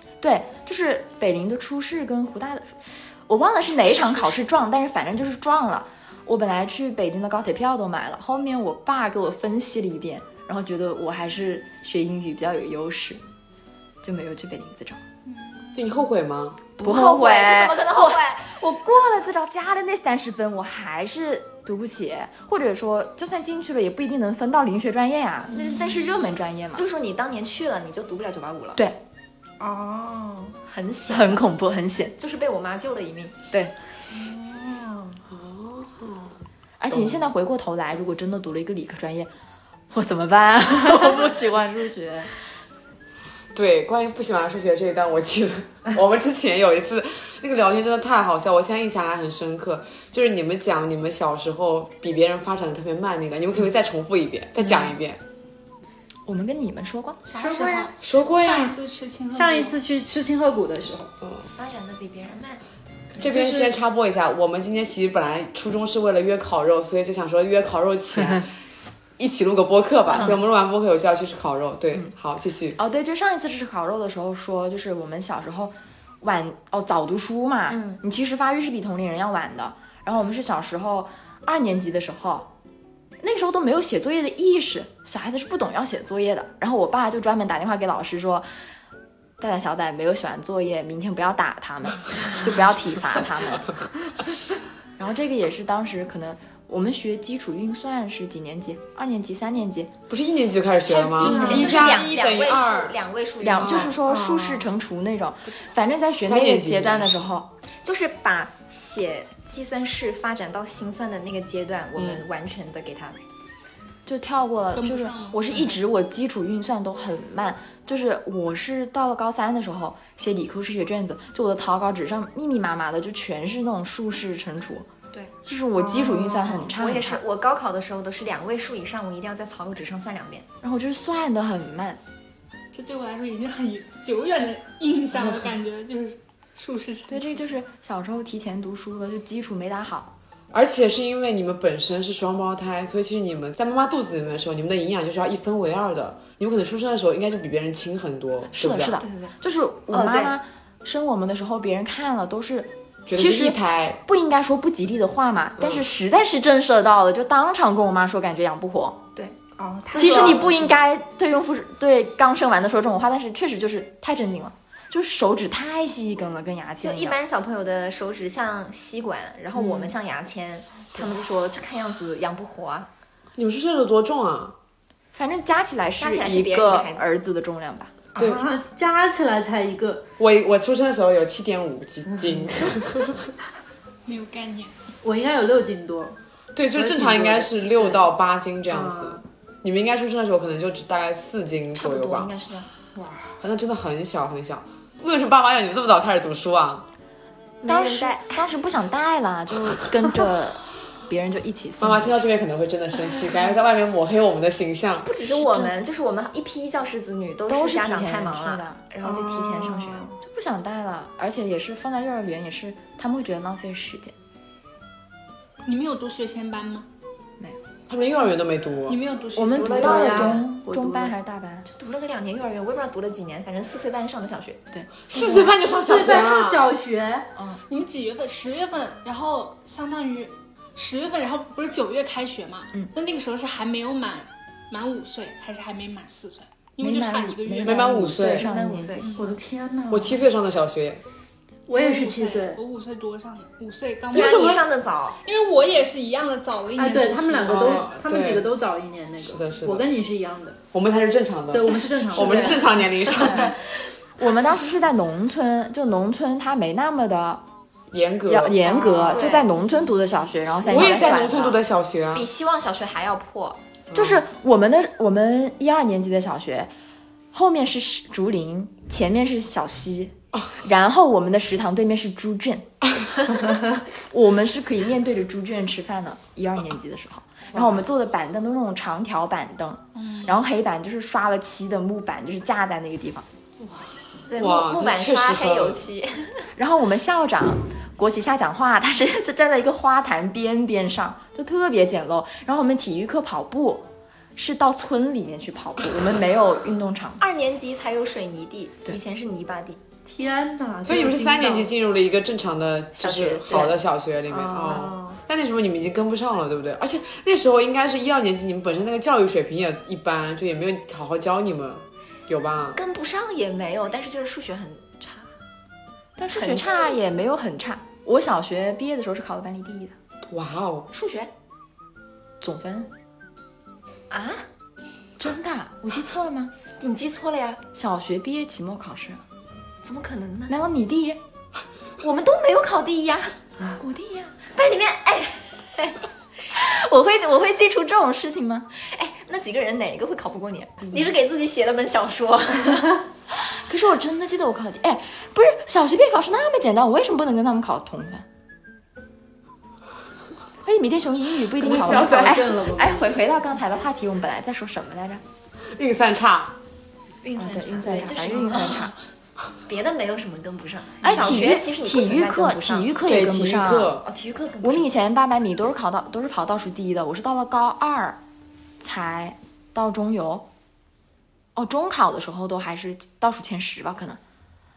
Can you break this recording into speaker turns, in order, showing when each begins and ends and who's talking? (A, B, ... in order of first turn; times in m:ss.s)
0:00.2-0:13.2 A
0:03.8-0:04.5 B
0:14.0-0:15.0 A
0:15.3-0:15.8 C
0:15.7-0:16.6 D
0:16.8-0:18.5 B
0:16.8-0:26.8 A
0:26.7-0:28.8 B
0:29.6-0:30.6 E
0:30.7-0:31.5 B
0:31.1-0:32.1 A
0:32.2-0:33.4 B
0:34.1-0:35.2 E
0:35.3-0:36.4 D
0:36.8-0:39.3 A
0:36.9-0:37.3 D
0:39.9-0:42.2 A
0:41.0-0:42.2 E
0:43.5-0:55.2 D
0:56.2-0:57.2 A
0:57.3-0:59.8 C
0:57.4-0:57.9 E
0:58.0-0:58.8 D
0:59.3-1:01.1 E
1:01.2-1:01.5 D
1:01.6-1:02.6 B
1:03.2-1:08.5 D
1:03.2-1:03.7 E
1:09.2-1:12.8 D
1:12.8-1:22.5 A
1:17.7-1:18.0 B
1:23.2-1:28.5 A
1:29.4-1:33.7 A
1:35.0-1:39.9 A
1:40.1-1:43.0 D
1:40.9-1:43.9 B
1:41.2-1:41.9 E
1:43.4-1:47.5 A
1:43.5-1:44.0 D
1:44.1-1:44.6 E
1:46.2-1:47.3 D
1:47.8-1:53.2 B
1:52.0-1:52.2 D
1:54.0-2:04.9 A
1:54.7-1:55.8 C
2:05.4-2:07.2 A
2:05.9-2:06.3 E
2:06.0-2:10.4 B
2:10.6-2:12.0 A
2:12.7-2:17.3 C
2:17.1-2:20.1 A
2:20.5-2:29.0 D
2:28.5-2:39.0 A
2:29.0-2:29.3 B
2:29.9-2:30.4 B
2:33.0-2:34.0 D
2:35.6-2:35.8 D
2:39.6-2:40.6 E
2:39.9-2:40.5 B
2:39.9-2:47.2 A
2:46.8-2:52.9 B
2:53.4-2:54.6 D
2:55.1-2:57.9 A
2:56.0-2:57.0 B
2:58.1-3:00.0 E
2:58.2-2:58.4 D
3:00.2-3:03.3 D
3:04.0-3:04.7 C
3:05.0-3:06.2 E
3:06.5-3:12.3 D
3:06.7-3:08.0 E
3:08.7-3:09.2 E
3:11.7-3:12.7 B
3:13.0-3:13.3 E
3:13.4-3:16.9 D
3:17.6-3:18.5 B
3:17.6-3:22.2 A
3:19.5-3:19.8 D
3:21.8-3:25.1 D
3:25.0-3:30.1 B
3:25.3-3:25.7 A
3:27.5-3:28.8 A
3:29.0-3:30.1 E
3:30.2-3:34.1 A
3:35.6-3:36.9 C
3:37.9-3:39.0 D
3:38.9-3:40.3 C
3:39.3-3:41.7 A
3:39.6-3:41.1 E
3:39.7-3:40.4 B
3:41.7-3:44.6 B
3:44.7-3:45.5 A
3:45.1-3:46.7 D
3:45.8-3:47.3 E
3:47.3-3:47.6 A
3:47.7-3:58.0 C
3:56.8-3:59.0 A
3:57.6-3:58.5 D
3:58.3-3:59.1 B
3:59.0-3:59.4 C
3:59.1-4:00.2 E
3:59.9-4:01.0 D
4:01.7-4:02.6 E
4:01.7-4:04.7 C
4:04.1-4:05.2 B
4:04.1-4:04.6 D
4:05.2-4:07.9 C
4:06.8-4:10.6 E
4:07.4-4:08.5 D
4:09.2-4:09.9 D
4:10.7-4:13.5 D
4:11.5-4:13.1 E
4:12.2-4:12.6 B
4:14.2-4:17.4 A
4:17.9-4:18.6 D
4:18.2-4:21.6 A
4:18.6-4:19.5 B
4:18.6-4:19.3 E
4:20.6-4:22.3 D
4:20.6-4:21.5 B
4:22.1-4:23.6 B
4:23.9-4:24.2 D
4:23.9-4:26.7 A
4:27.3-4:32.7 A
4:34.1-4:43.2 A
4:37.5-4:37.8 D
4:39.9-4:40.4 C
4:44.3-4:46.5 B
4:44.3-4:45.8 D
4:46.6-4:53.8 A
4:54.4-4:57.2 A
4:57.2-4:59.8 B
5:00.0-5:01.7 E
5:00.8-5:12.8 D
5:03.0-5:03.7 B
5:03.2-5:03.7 A
5:04.3-5:05.2 E
5:12.7-5:15.3 B
5:16.2-5:19.9 A
5:16.3-5:17.0 B
5:20.2-5:20.9 D
5:20.9-5:21.2 A
5:20.9-5:21.3 B
5:22.4-5:22.9 A
5:24.1-5:24.5 B
5:25.2-5:26.5 A
5:26.8-5:27.6 B
5:27.7-5:29.2 A
5:29.8-5:30.6 B
5:30.5-5:31.2 A
5:32.0-5:33.4 B
5:33.8-5:34.4 A
5:34.4-5:36.0 B
5:36.6-5:38.7 A
5:36.6-5:37.2 B
5:38.8-5:43.0 B
5:43.4-5:48.2 A
5:50.6-5:55.2 A
5:51.6-5:53.2 E
5:51.6-5:52.4 D
5:55.7-5:56.6 D
5:57.2-5:58.9 B
5:57.4-5:58.9 A
5:59.7-6:02.9 B
6:01.0-6:04.0 A
6:03.0-6:04.1 D
6:04.0-6:04.9 B
6:04.6-6:08.2 A
6:08.8-6:10.4 A
6:11.6-6:14.2 A